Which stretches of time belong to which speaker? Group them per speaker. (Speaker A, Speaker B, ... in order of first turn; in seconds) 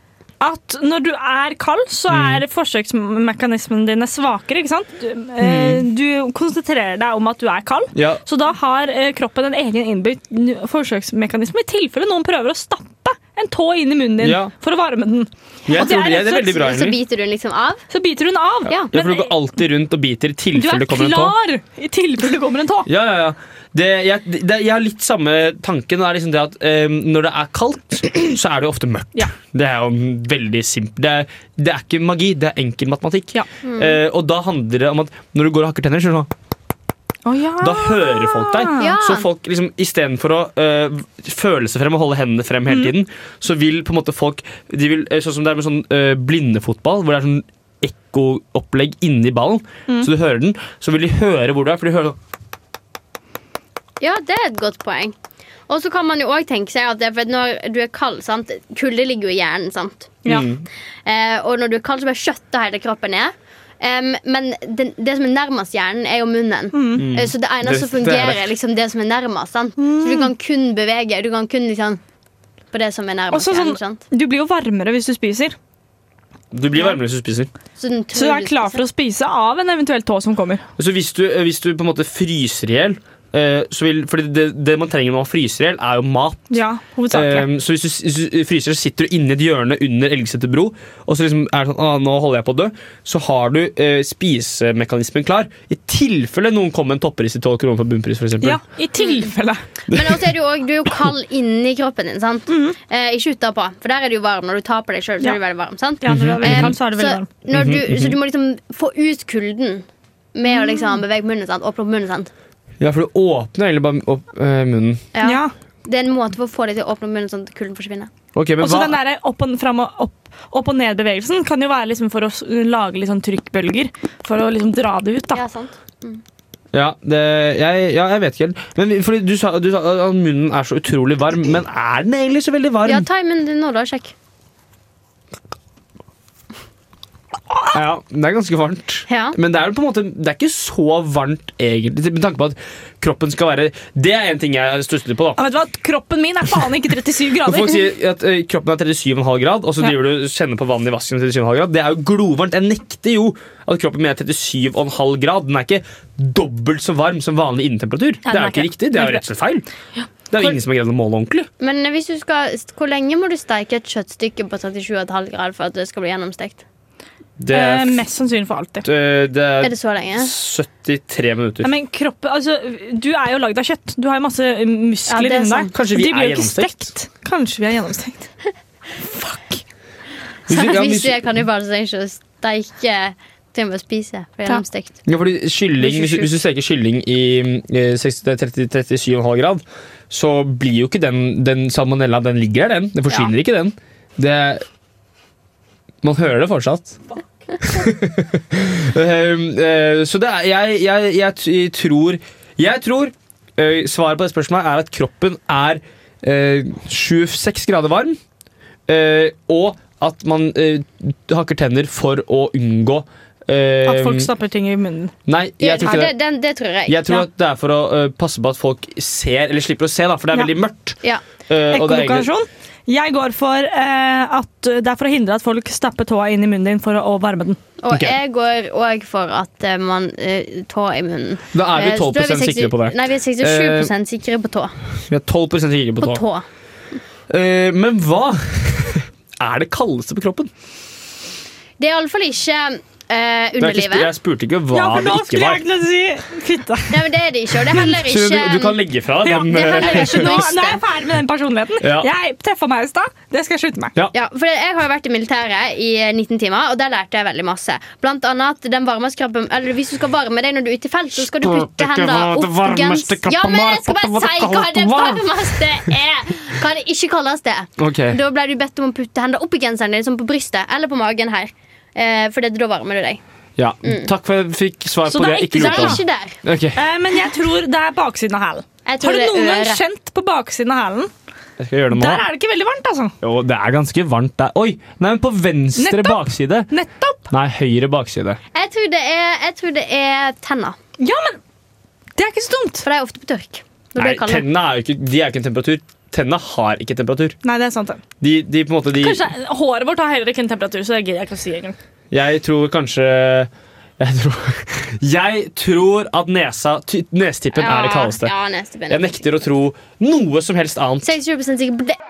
Speaker A: 0.4-16.7, 17.9-19.3, 20.6-22.9, 37.2-38.9, 66.7-67.0, 69.8-70.3, 73.3-75.5, 78.1-80.6, 86.5-87.5, 98.4-99.6, 102.5-102.8, 106.0-107.3, 115.2-115.5, 118.6-125.4, 145.4-147.8, 158.2-159.2, 167.5-168.9, 171.6-178.3, 179.0-179.6, 213.8-215.1, 221.7-227.6, 244.7-247.0, 249.2-253.9, 275.1-276.0, 276.7-281.1, 281.9-283.1, 285.8-287.3, 291.0-291.4, 292.2-292.9, 297.4-298.0, 299.0-301.8
Speaker B: 2.1-2.4, 5.4-5.8, 7.9-8.2, 14.2-14.5, 15.7-17.0, 18.9-21.3, 22.9-36.3, 37.6-52.2, 60.2-60.6, 67.0-68.5, 76.5-77.5, 80.8-86.6, 87.1-98.6, 99.9-100.2, 106.1-106.8, 107.5-108.2, 112.8-115.0, 118.3-118.9, 126.7-133.1, 137.7-145.4, 147.4-159.7, 160.3-161.5, 167.4-168.0, 168.8-171.7, 175.7-176.8, 180.5-181.2, 185.1-194.6, 196.0-197.0, 197.6-208.2, 208.9-214.3, 215.3-216.2, 216.9-222.3, 227.9-228.2, 231.5-233.9, 235.1-236.2, 237.3-240.5, 243.6-245.6, 248.0-250.5, 251.8-252.1, 261.1-265.6, 267.8-268.2, 273.6-276.8, 281.6-282.2, 283.2-286.7, 287.3-288.4, 293.9-297.4, 298.2-299.2, 302.1-308.3, 308.9-311.1
Speaker C: 15.8-17.8, 33.6-34.0, 38.8-39.2, 54.0-55.1, 55.7-60.2, 61.0-72.0, 72.7-74.0, 77.8-78.8, 99.0-99.3, 99.9-112.3, 115.1-118.1, 125.3-126.2, 132.8-134.1, 139.1-139.3, 161.6-166.6, 169.6-170.3, 175.1-175.7, 180.5-185.0, 185.8-186.3, 215.6-217.2, 227.8-234.7, 236.0-236.4, 241.8-244.1, 246.9-248.8, 249.5-250.8, 254.1-273.2, 273.8-274.1, 275.6-276.4, 278.9-279.8, 288.5-290.8, 292.8-294.4, 307.6-309.2, 311.0-312.0